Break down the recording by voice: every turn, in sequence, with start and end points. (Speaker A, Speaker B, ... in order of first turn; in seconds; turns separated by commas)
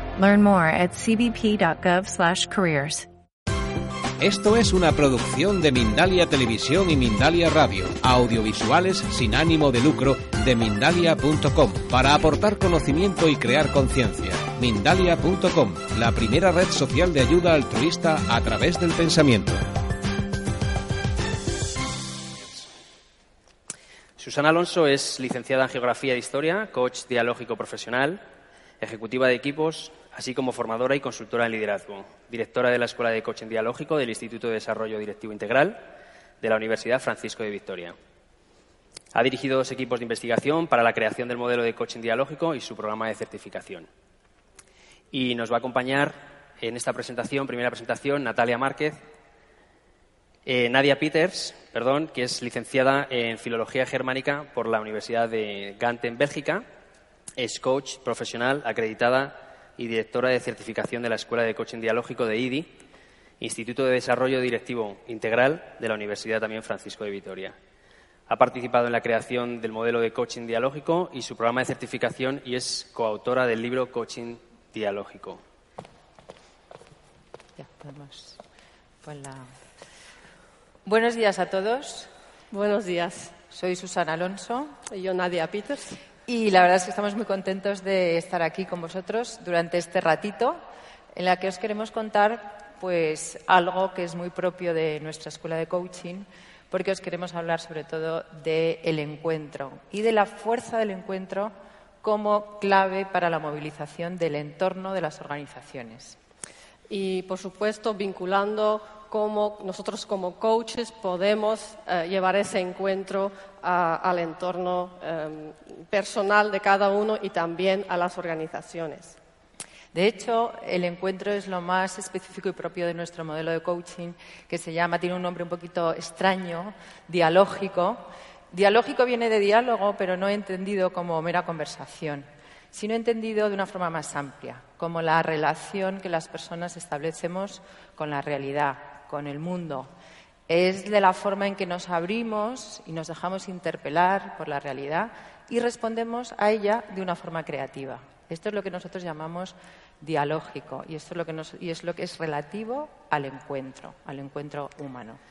Speaker A: 0.2-3.1, Speaker B: 4.2-19.6, Speaker C: 24.2-28.2, Speaker C: 28.8-35.8, Speaker C: 36.4-38.0, Speaker C: 39.1-43.9, Speaker C: 45.1-49.0, Speaker C: 50.5-56.6, Speaker C: 57.4-62.7, Speaker C: 63.4-67.6, Speaker C: 68.3-75.4, Speaker D: 77.6-78.4, Speaker D: 79.0-79.5, Speaker D: 80.8-82.1, Speaker E: 82.5-83.3, Speaker D: 83.5-84.8, Speaker E: 84.9-86.0, Speaker D: 86.3-90.6, Speaker D: 91.1-106.2, Speaker E: 106.9-119.2, Speaker D: 119.9-139.9, Speaker D: 140.5-155.2